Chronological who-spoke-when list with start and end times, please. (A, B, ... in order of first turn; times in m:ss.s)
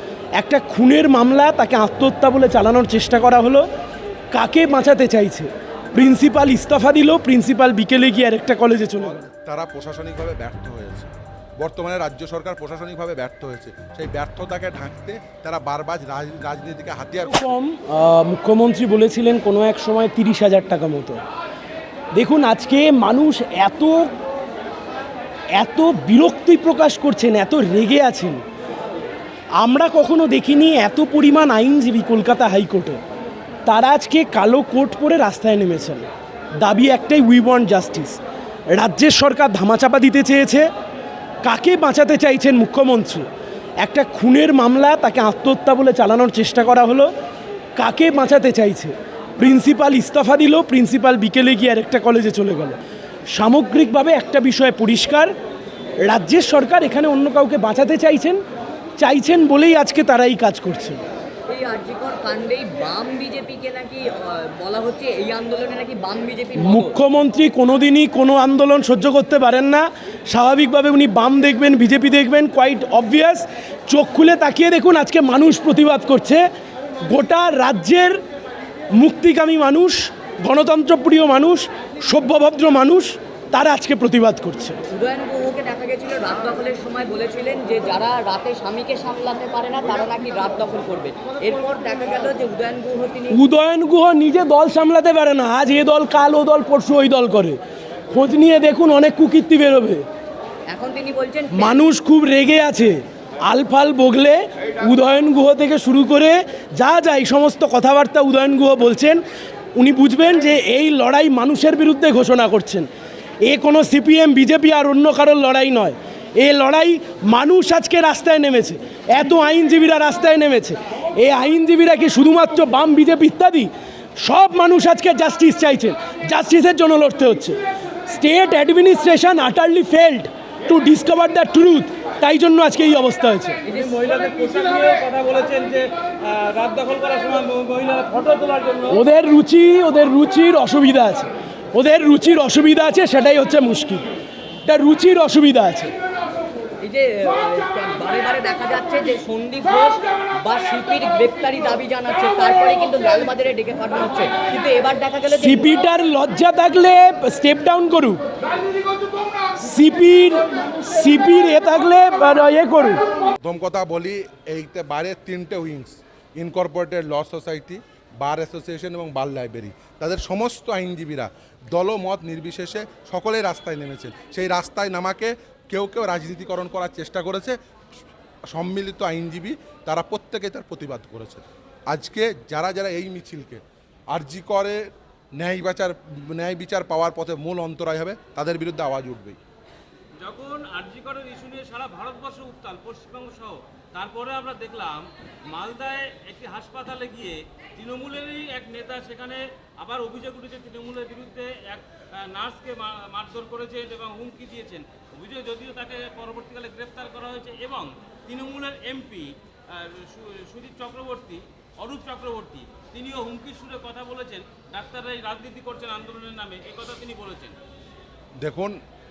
0:00.4-0:03.7 A
0:04.3-0:09.2 A
0:09.0-0:17.6 B
0:17.3-0:21.2 A
0:22.2-0:24.1 A
0:25.6-0:28.4 A
0:29.6-0:33.0 A
0:33.7-0:40.7 A
0:41.4-0:43.3 A
0:43.8-0:47.1 A
0:47.8-0:52.8 A
0:53.3-0:55.3 A
0:56.0-0:58.4 A
0:59.0-1:01.0 A
1:01.5-1:07.0 C
1:06.6-1:16.5 A
1:17.1-1:18.2 A
1:18.9-1:24.8 A
1:24.9-1:33.4 C
1:33.3-1:37.6 A
1:38.1-1:40.0 A
1:40.7-1:41.8 C
1:41.5-1:49.2 A
1:49.8-1:52.9 A
1:53.4-2:13.6 A
2:13.7-2:19.0 D
2:18.9-2:24.0 A
2:24.7-2:25.9 A
2:26.8-2:35.7 C
2:35.3-2:38.2 A
2:39.6-2:43.0 A
2:43.4-2:57.6 B
2:58.5-3:04.9 B
3:05.4-3:09.4 B
3:10.2-3:37.6 D
3:38.4-3:38.8 B